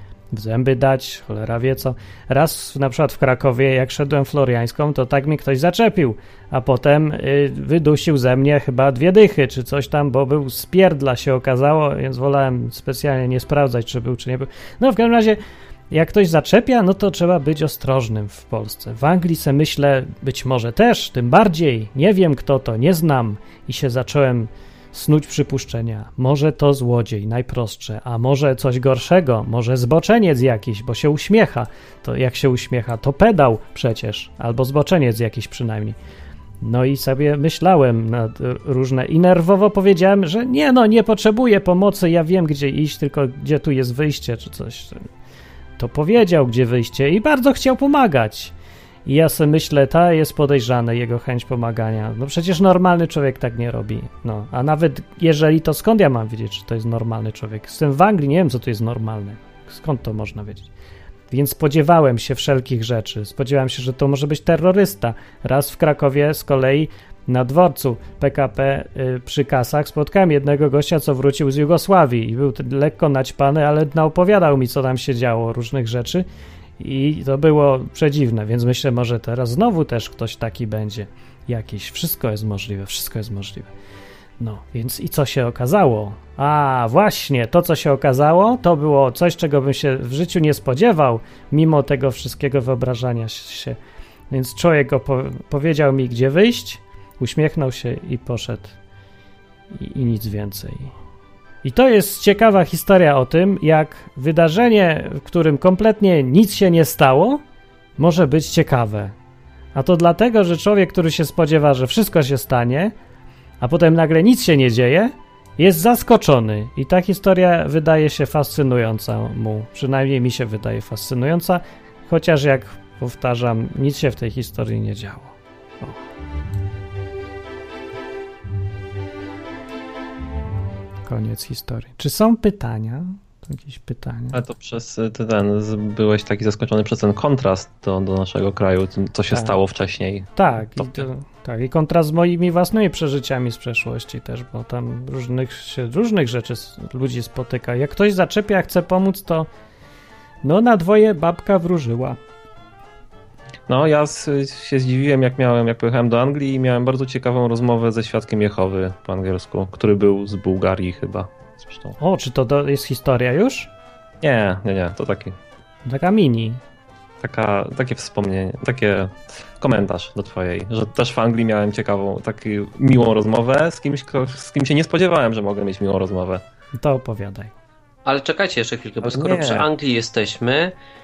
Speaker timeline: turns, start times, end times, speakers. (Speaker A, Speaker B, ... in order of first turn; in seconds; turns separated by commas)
Speaker A: 0.3-15.4, Speaker A: 15.9-36.0, Speaker A: 36.6-45.1, Speaker A: 45.8-48.5, Speaker A: 49.1-60.7, Speaker A: 61.3-76.3, Speaker A: 76.8-83.7, Speaker A: 84.4-93.8, Speaker A: 94.3-98.8, Speaker A: 99.7-100.9, Speaker A: 101.6-107.4, Speaker A: 108.0-109.1, Speaker A: 109.7-112.9, Speaker A: 113.6-126.0, Speaker A: 131.1-134.4, Speaker B: 134.3-141.1, Speaker A: 139.3-139.6, Speaker A: 140.4-149.5, Speaker A: 150.4-152.2, Speaker B: 153.7-162.0, Speaker A: 162.0-163.7, Speaker B: 164.2-165.4, Speaker A: 165.8-166.6, Speaker B: 167.2-176.4, Speaker A: 176.8-177.5, Speaker C: 178.1-180.8, Speaker B: 179.0-179.7